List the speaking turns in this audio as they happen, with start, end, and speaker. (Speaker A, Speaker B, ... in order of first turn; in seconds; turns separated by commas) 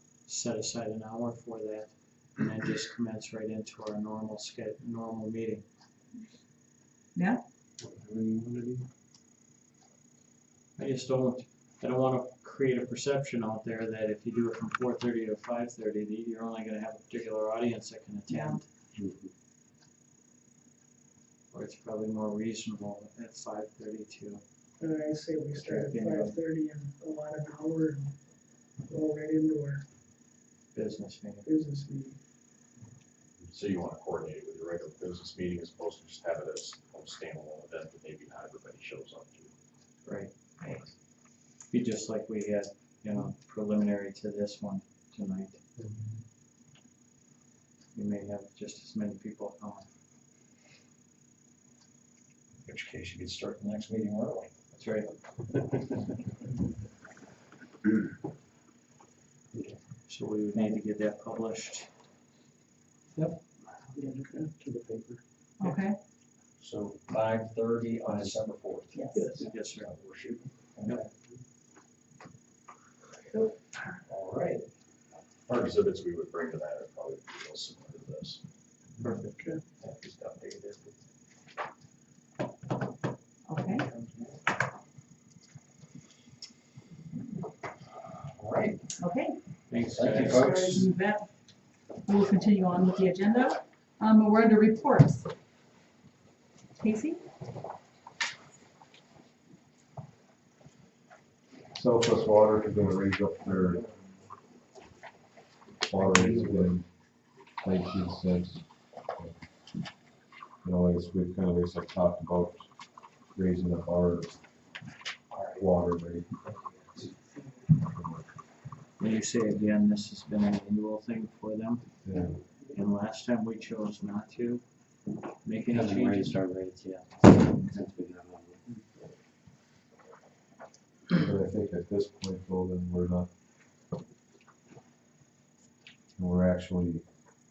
Speaker A: 0.2-5.6, Speaker B: 7.1-7.4, Speaker C: 7.8-8.8, Speaker A: 10.8-18.6, Speaker B: 18.3-18.6, Speaker C: 18.9-19.3, Speaker A: 21.5-24.4, Speaker D: 24.8-28.1, Speaker A: 25.5-26.4, Speaker D: 28.9-29.8, Speaker A: 30.7-31.5, Speaker D: 31.4-32.2, Speaker E: 33.4-39.5, Speaker A: 40.0-40.3, Speaker B: 40.6-40.9, Speaker A: 41.7-45.6, Speaker A: 47.9-49.9, Speaker F: 52.6-54.5, Speaker A: 54.7-55.1, Speaker C: 59.5-59.8, Speaker A: 60.1-61.9, Speaker C: 63.1-65.2, Speaker B: 65.6-66.0, Speaker F: 66.6-69.1, Speaker B: 68.9-69.2, Speaker D: 69.2-69.5, Speaker A: 69.3-69.9, Speaker F: 69.6-71.0, Speaker D: 73.3-74.0, Speaker F: 74.1-74.7, Speaker E: 75.5-78.4, Speaker A: 79.0-79.5, Speaker F: 79.8-81.0, Speaker B: 83.5-83.9, Speaker F: 83.9-84.3, Speaker F: 88.2-88.9, Speaker B: 89.0-89.4, Speaker A: 89.7-90.8, Speaker F: 89.8-90.8, Speaker D: 90.1-90.8, Speaker B: 90.7-91.3, Speaker B: 92.0-95.2, Speaker B: 96.8-97.2, Speaker G: 101.7-103.8, Speaker G: 105.8-106.8, Speaker C: 106.0-106.7, Speaker G: 107.6-108.6, Speaker G: 110.6-112.7, Speaker G: 113.3-114.3, Speaker F: 115.3-115.6, Speaker G: 115.6-116.4, Speaker G: 117.8-118.2, Speaker A: 119.0-121.8, Speaker G: 122.0-122.4, Speaker A: 122.7-124.6, Speaker A: 125.4-127.5, Speaker C: 125.7-126.7, Speaker C: 127.2-128.8, Speaker G: 131.2-133.3, Speaker G: 136.2-137.0